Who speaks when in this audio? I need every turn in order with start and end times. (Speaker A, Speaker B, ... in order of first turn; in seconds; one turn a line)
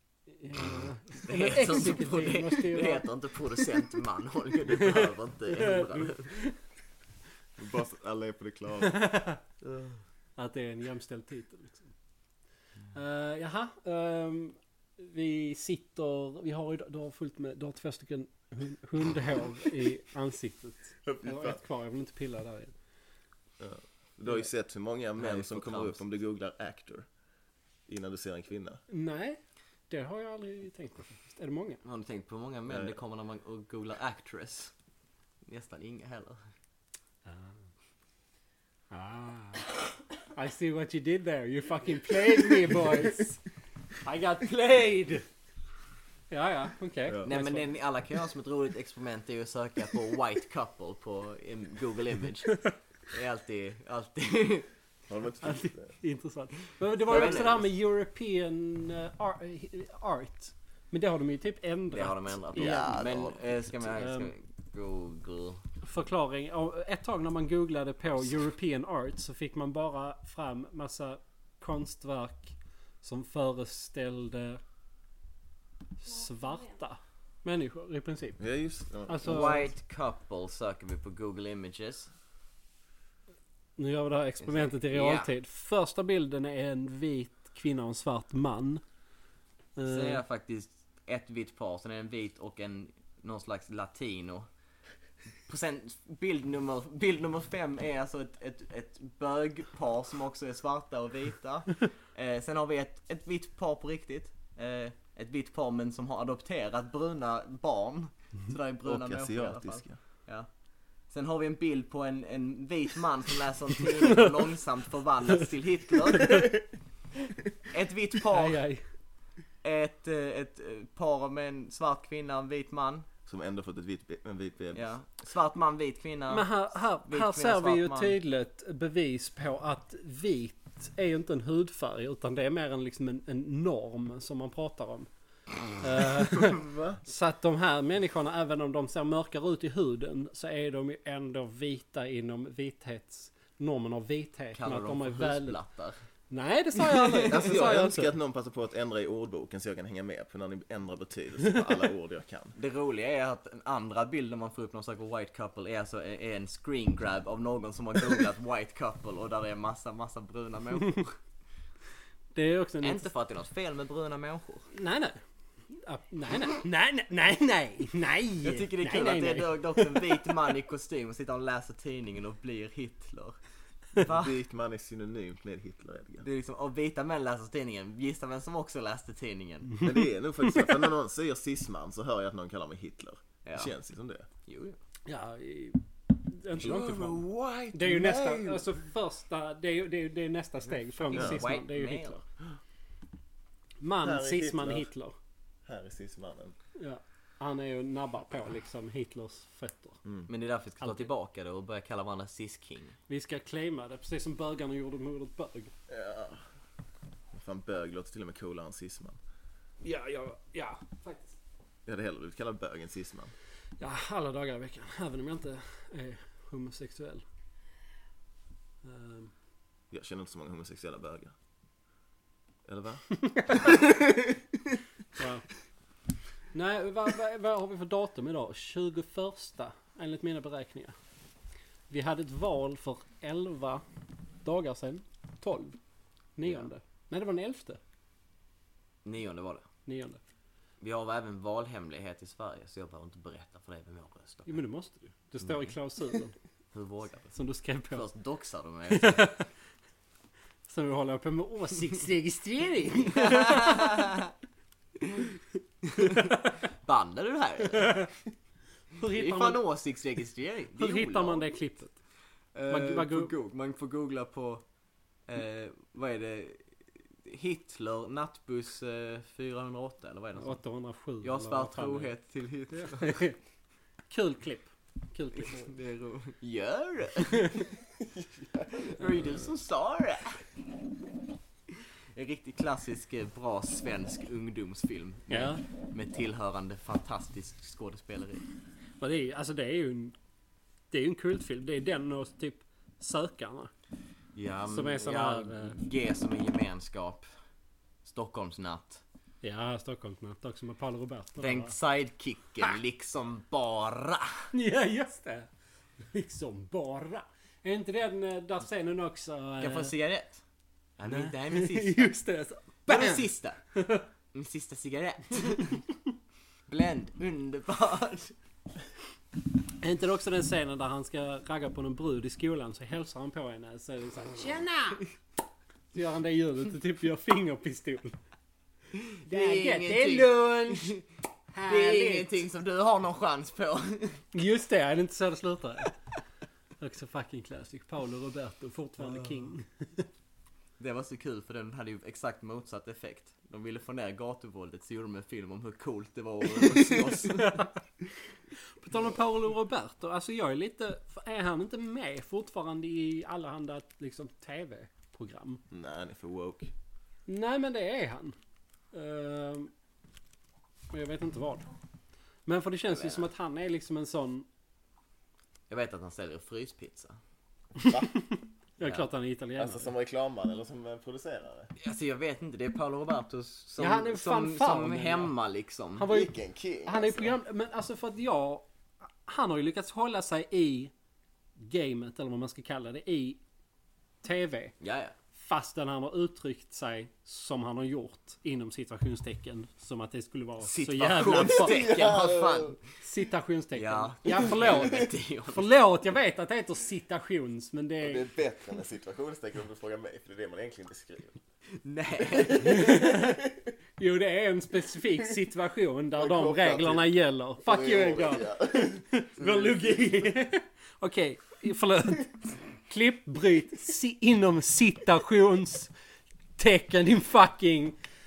Speaker A: 0.3-3.0
Speaker B: 1.2-6.3
Speaker A: 4.8-6.5
Speaker C: 7.6-9.0
Speaker A: 8.8-9.4
Speaker A: 10.4-11.9
Speaker A: 12.9-22.7
Speaker C: 21.0-21.6
Speaker C: 23.6-27.1
Speaker B: 25.2-26.0
Speaker C: 27.9-28.8
Speaker A: 28.9-31.8
Speaker B: 31.8-34.7
Speaker C: 32.7-33.0
Speaker B: 35.5-36.4
Speaker A: 38.9-43.4
Speaker A: 44.0-45.2
Speaker A: 46.3-47.7
Speaker C: 47.1-47.3
Speaker B: 47.2-54.7
Speaker C: 55.1-55.9
Speaker A: 55.4-63.0
Speaker B: 57.0-57.6
Speaker C: 57.1-57.4
Speaker B: 61.9-65.6
Speaker C: 62.5-63.4
Speaker A: 63.9-64.3
Speaker A: 65.8-74.6
Speaker A: 76.0-78.4
Speaker C: 78.4-79.5
Speaker A: 79.1-79.7
Speaker B: 79.2-82.1
Speaker A: 83.8-88.8
Speaker B: 84.5-85.3
Speaker A: 89.8-90.2
Speaker B: 89.9-94.5
Speaker B: 95.5-110.5
Speaker C: 108.8-110.0
Speaker B: 111.0-116.5
Speaker A: 116.2-116.5
Speaker B: 117.7-118.6
Speaker A: 118.3-118.8
Speaker B: 119.6-123.1
Speaker C: 123.3-124.9
Speaker B: 124.7-128.2
Speaker A: 126.3-135.1
Speaker A: 135.8-145.6
Speaker C: 136.3-137.0
Speaker B: 144.5-146.0
Speaker A: 146.3-148.1
Speaker B: 146.9-147.3
Speaker C: 147.3-152.6
Speaker B: 152.6-161.1
Speaker A: 162.3-163.1
Speaker B: 162.8-164.7
Speaker A: 164.7-165.2
Speaker A: 165.7-170.2
Speaker B: 168.4-173.4
Speaker B: 173.9-174.3
Speaker C: 174.0-176.2
Speaker B: 176.2-179.8
Speaker C: 179.8-184.3
Speaker B: 183.4-183.7
Speaker B: 184.4-184.8
Speaker A: 185.1-192.2
Speaker C: 186.6-188.7
Speaker B: 191.0-192.2
Speaker C: 191.1-191.4
Speaker A: 193.8-195.1
Speaker C: 194.0-194.9
Speaker C: 195.7-196.6
Speaker A: 196.8-200.0
Speaker B: 200.3-202.9
Speaker A: 200.8-201.1
Speaker A: 203.1-205.7
Speaker C: 205.9-206.4
Speaker C: 207.3-209.2
Speaker A: 209.8-211.4
Speaker C: 211.8-213.3
Speaker A: 213.8-217.2
Speaker A: 218.8-219.3
Speaker C: 219.9-221.3
Speaker C: 222.7-223.1
Speaker A: 223.2-223.8
Speaker A: 225.2-225.4
Speaker A: 226.5-230.9
Speaker A: 231.9-233.8
Speaker A: 234.4-235.8
Speaker A: 236.3-237.8
Speaker B: 239.0-239.6
Speaker A: 239.8-240.2
Speaker B: 240.8-244.6
Speaker A: 244.5-246.3
Speaker B: 246.7-247.3
Speaker A: 247.3-248.0
Speaker B: 247.9-249.3
Speaker A: 248.9-249.5
Speaker A: 250.7-254.1
Speaker B: 253.2-254.3
Speaker B: 255.0-255.3
Speaker B: 255.8-258.0
Speaker A: 256.0-256.5
Speaker A: 257.8-258.1
Speaker A: 258.9-259.6
Speaker B: 259.1-261.5
Speaker A: 260.8-261.9
Speaker B: 262.5-264.6
Speaker A: 262.7-263.3
Speaker B: 265.3-266.7
Speaker B: 267.2-270.6
Speaker A: 270.4-272.1
Speaker B: 271.2-273.2
Speaker A: 272.7-273.4
Speaker A: 274.1-275.7
Speaker B: 275.4-277.6
Speaker C: 278.0-279.3
Speaker B: 278.9-280.4
Speaker B: 282.1-288.4
Speaker A: 285.3-285.6
Speaker A: 289.0-290.1
Speaker A: 290.9-293.7
Speaker B: 294.3-297.3
Speaker A: 294.7-295.8
Speaker B: 298.0-299.0
Speaker A: 299.4-301.7
Speaker B: 301.4-304.5
Speaker A: 304.5-305.5
Speaker A: 306.1-309.9
Speaker B: 309.6-310.4
Speaker B: 311.0-312.2
Speaker A: 311.1-314.0
Speaker B: 312.9-313.6
Speaker B: 314.3-315.8
Speaker B: 316.7-318.3
Speaker A: 319.8-325.0
Speaker A: 325.9-328.1
Speaker B: 328.9-331.0
Speaker A: 329.2-330.9
Speaker A: 331.5-332.3
Speaker B: 331.6-334.2
Speaker A: 334.3-335.9
Speaker A: 336.8-340.1
Speaker B: 339.0-339.4
Speaker B: 340.8-347.6
Speaker A: 347.2-347.7
Speaker A: 348.8-355.6
Speaker C: 355.7-356.7
Speaker A: 357.3-358.4
Speaker A: 358.9-359.7
Speaker A: 360.9-361.7
Speaker A: 362.4-364.5
Speaker B: 362.9-363.3
Speaker B: 365.7-367.2
Speaker A: 367.8-369.9
Speaker C: 367.8-368.1
Speaker C: 369.6-371.7
Speaker B: 371.8-376.1
Speaker A: 373.8-375.3
Speaker A: 376.0-376.3
Speaker C: 376.0-377.3
Speaker A: 376.8-378.7
Speaker A: 379.2-380.9
Speaker A: 381.6-383.4
Speaker A: 384.2-384.7
Speaker B: 384.8-385.1
Speaker A: 385.4-391.8
Speaker B: 390.6-392.8
Speaker C: 391.4-392.8
Speaker A: 393.0-398.2
Speaker B: 393.7-395.7
Speaker C: 398.0-401.4
Speaker B: 401.8-402.9
Speaker C: 402.3-403.5
Speaker A: 402.6-403.4
Speaker A: 404.0-415.9
Speaker C: 406.1-407.1
Speaker C: 407.6-410.2
Speaker A: 416.6-417.9